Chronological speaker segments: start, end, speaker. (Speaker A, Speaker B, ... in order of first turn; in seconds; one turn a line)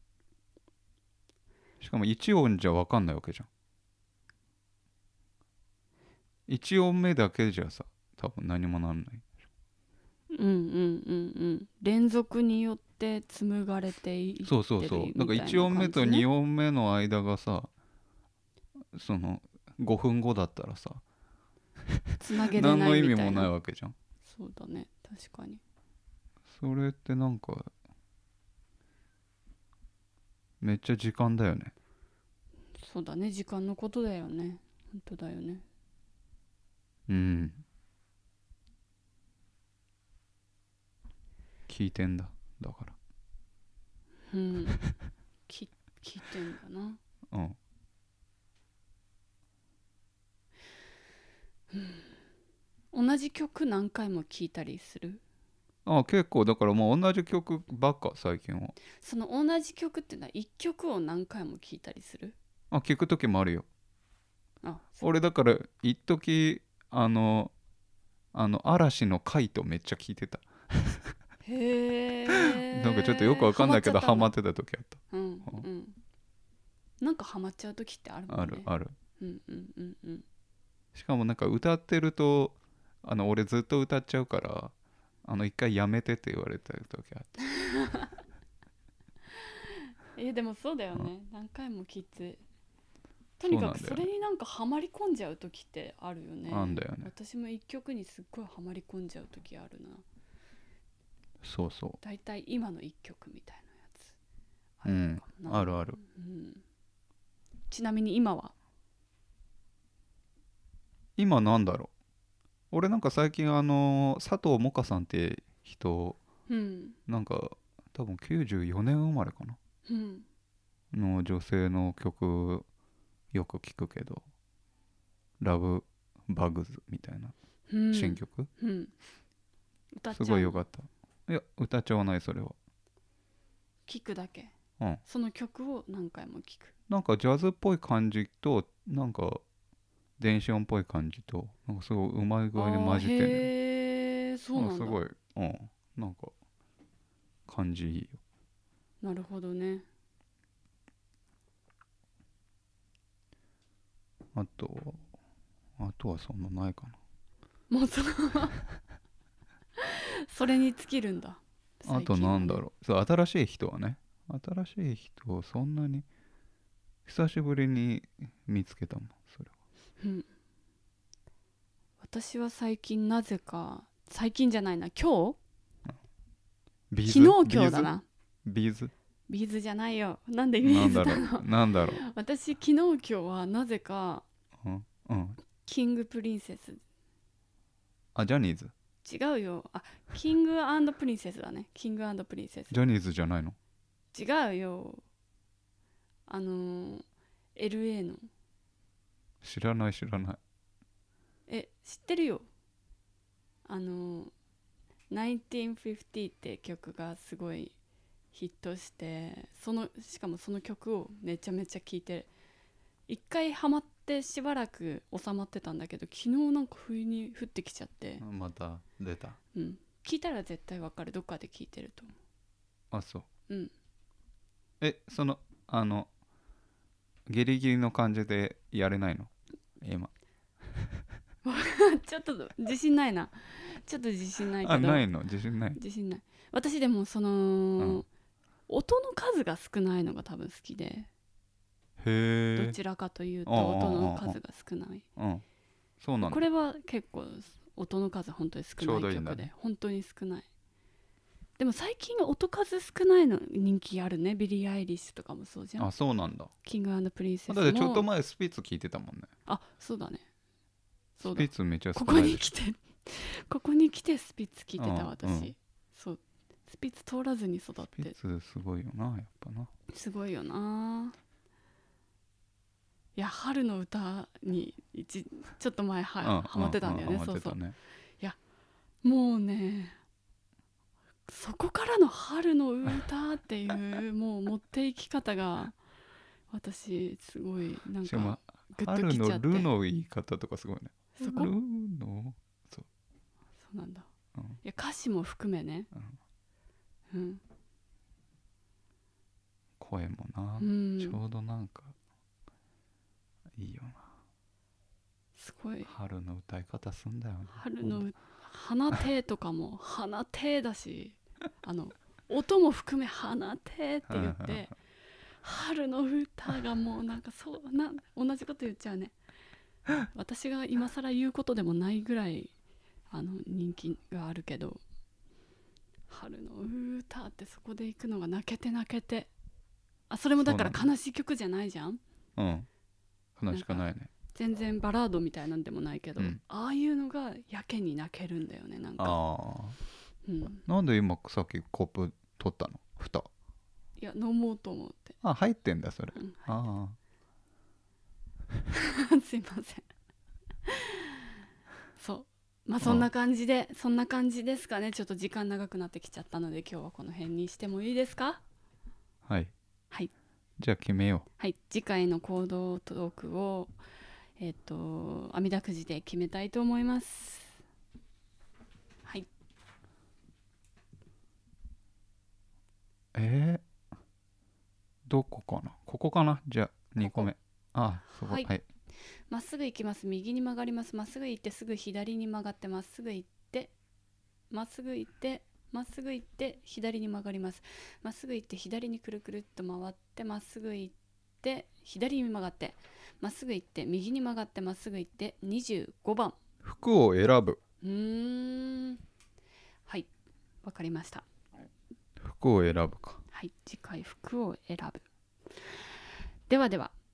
Speaker A: 1.8-3.5
Speaker A: 6.5-9.2
Speaker B: 10.3-16.3
Speaker A: 14.4-17.7
Speaker A: 18.9-21.0
Speaker B: 22.2-23.5
Speaker A: 22.5-24.0
Speaker B: 24.2-25.6
Speaker A: 26.5-27.7
Speaker A: 30.6-31.7
Speaker B: 32.8-35.6
Speaker A: 37.1-37.6
Speaker A: 41.7-43.0
Speaker B: 44.3-44.9
Speaker B: 45.5-47.0
Speaker A: 47.3-47.6
Speaker B: 51.7-52.1
Speaker B: 52.9-55.2
Speaker A: 55.9-58.8
Speaker B: 59.0-62.4
Speaker A: 62.7-63.7
Speaker B: 64.6-65.0
Speaker A: 65.0-67.5
Speaker A: 68.3-71.1
Speaker B: 71.4-74.3
Speaker A: 72.3-75.7
Speaker B: 75.1-76.0
Speaker B: 77.0-80.2
Speaker A: 78.3-79.0
Speaker A: 80.9-84.7
Speaker A: 85.2-87.3
Speaker B: 87.5-88.2
Speaker B: 89.3-92.4
Speaker B: 93.4-100.0
Speaker A: 93.5-94.1
Speaker A: 96.5-97.1
Speaker A: 101.4-102.0
Speaker B: 102.0-104.1
Speaker B: 104.8-106.6
Speaker A: 104.8-106.0
Speaker B: 107.7-108.5
Speaker A: 111.2-111.9
Speaker A: 112.7-116.2
Speaker B: 116.5-117.0
Speaker A: 117.1-119.6
Speaker B: 119.9-120.3
Speaker A: 120.9-122.7
Speaker A: 123.3-124.2
Speaker A: 125.4-127.3
Speaker B: 127.7-128.9
Speaker A: 127.9-128.5
Speaker B: 129.9-130.6
Speaker A: 130.1-132.6
Speaker B: 133.9-134.5
Speaker B: 135.1-136.7
Speaker A: 136.9-139.4
Speaker A: 140.2-143.5
Speaker B: 142.6-145.0
Speaker A: 144.6-146.3
Speaker A: 147.5-148.2
Speaker B: 149.0-149.9
Speaker A: 154.3-155.0
Speaker A: 155.8-157.0
Speaker B: 157.7-158.6
Speaker B: 159.8-162.6
Speaker A: 161.8-166.1
Speaker A: 167.1-169.5
Speaker B: 170.0-170.3
Speaker B: 172.0-175.4
Speaker A: 176.9-177.9
Speaker B: 177.1-178.1
Speaker A: 178.5-178.9
Speaker B: 179.3-184.3
Speaker A: 180.6-182.0
Speaker A: 184.6-185.4
Speaker B: 185.6-186.8
Speaker A: 188.2-188.7
Speaker B: 189.0-192.7
Speaker A: 192.7-193.6
Speaker B: 194.1-195.0
Speaker B: 196.3-197.1
Speaker B: 197.6-198.3
Speaker A: 199.4-200.4
Speaker B: 201.5-202.4
Speaker B: 203.7-204.3
Speaker B: 205.1-207.7
Speaker B: 208.3-212.3
Speaker B: 213.1-218.2
Speaker A: 218.2-219.4
Speaker B: 219.5-222.1
Speaker A: 222.9-223.3
Speaker A: 224.8-226.1
Speaker A: 227.3-230.1
Speaker B: 231.4-235.1
Speaker A: 234.6-235.8
Speaker B: 235.8-238.1
Speaker B: 238.7-241.1
Speaker A: 242.0-242.8
Speaker B: 242.6-245.1
Speaker A: 243.5-244.4
Speaker A: 245.2-245.4
Speaker A: 246.0-246.4
Speaker B: 246.2-250.5
Speaker A: 248.8-249.5
Speaker B: 251.6-255.9
Speaker A: 255.8-256.5
Speaker B: 256.6-258.1
Speaker A: 257.5-259.3
Speaker B: 259.5-260.2
Speaker B: 261.2-268.1
Speaker A: 261.2-262.5
Speaker A: 264.8-265.5
Speaker A: 268.0-269.7
Speaker B: 269.9-271.2
Speaker B: 273.1-277.6
Speaker A: 276.2-277.8
Speaker B: 279.0-280.0
Speaker B: 281.3-285.8
Speaker B: 286.5-289.7
Speaker A: 288.0-292.9
Speaker B: 291.2-291.5
Speaker B: 293.6-294.1
Speaker B: 294.6-295.9
Speaker B: 297.1-297.4
Speaker A: 299.8-301.9
Speaker B: 300.6-301.2
Speaker A: 303.6-304.0
Speaker B: 305.4-305.9
Speaker A: 305.8-308.1
Speaker B: 307.6-314.7
Speaker A: 314.1-314.7
Speaker B: 315.4-319.1
Speaker B: 320.0-322.5
Speaker B: 323.1-324.8
Speaker B: 326.1-329.3
Speaker B: 330.1-332.0
Speaker A: 330.4-330.9
Speaker A: 332.4-332.7
Speaker A: 333.4-334.1
Speaker B: 333.5-339.2
Speaker A: 339.0-339.8
Speaker B: 340.2-340.6
Speaker A: 340.7-343.3
Speaker B: 344.0-345.2
Speaker A: 345.2-347.0
Speaker B: 346.2-346.5
Speaker B: 348.7-349.9
Speaker B: 350.7-351.3
Speaker B: 352.0-358.4
Speaker A: 352.8-353.1
Speaker A: 359.3-359.5
Speaker A: 360.6-361.3
Speaker B: 361.4-363.8
Speaker B: 364.4-367.6
Speaker A: 373.1-373.6
Speaker A: 375.1-378.6
Speaker B: 377.0-377.3
Speaker B: 378.1-378.5
Speaker B: 379.3-383.7
Speaker B: 384.5-396.4
Speaker A: 396.6-397.6
Speaker B: 397.8-399.0
Speaker B: 400.6-401.2
Speaker A: 402.2-403.2
Speaker B: 403.3-405.1
Speaker B: 406.5-407.0